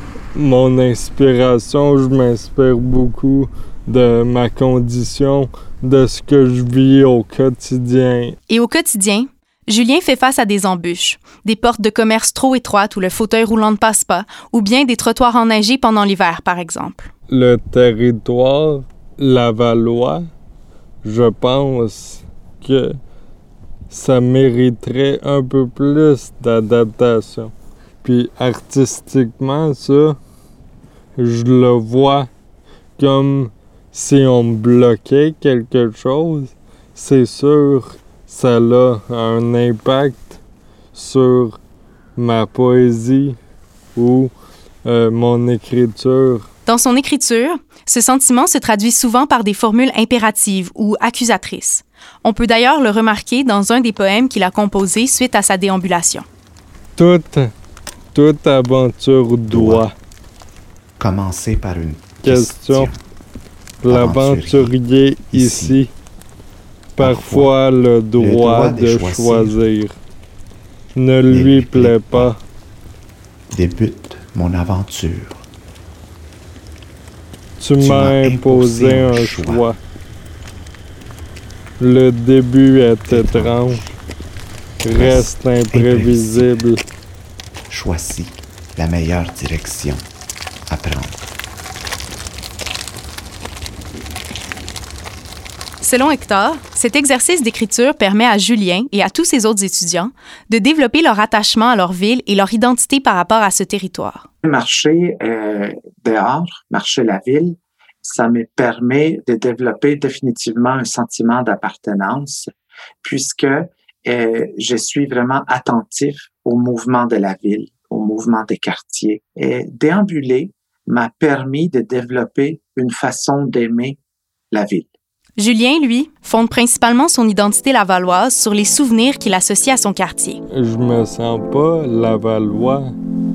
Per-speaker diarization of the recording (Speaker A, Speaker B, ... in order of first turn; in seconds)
Speaker A: 0.3-8.4, 17.3-20.2, 21.0-22.9, 23.9-27.5, 28.0-30.2, 31.2-32.3, 33.0-40.4, 40.9-41.6, 42.2-43.4, 44.0-44.3, 44.9-46.5, 57.0-57.5, 58.1-59.9, 62.2-62.9, 63.8-65.9, 67.0-69.9, 71.0-72.4, 77.6-79.8, 81.8-83.8, 84.8-86.8, 130.5-132.9
Speaker B: 8.5-17.1, 46.7-56.3, 95.8-104.3, 125.4-130.4
Speaker C: 59.5-59.9, 61.0-63.0, 63.9-64.8, 65.3-65.8, 67.0-67.5, 68.2-69.6, 71.3-72.3, 73.5-75.5, 77.8-79.7, 83.1-83.8, 84.9-86.5, 87.7-90.0, 90.7-91.2
Speaker D: 104.4-112.5, 113.0-124.0, 124.5-124.9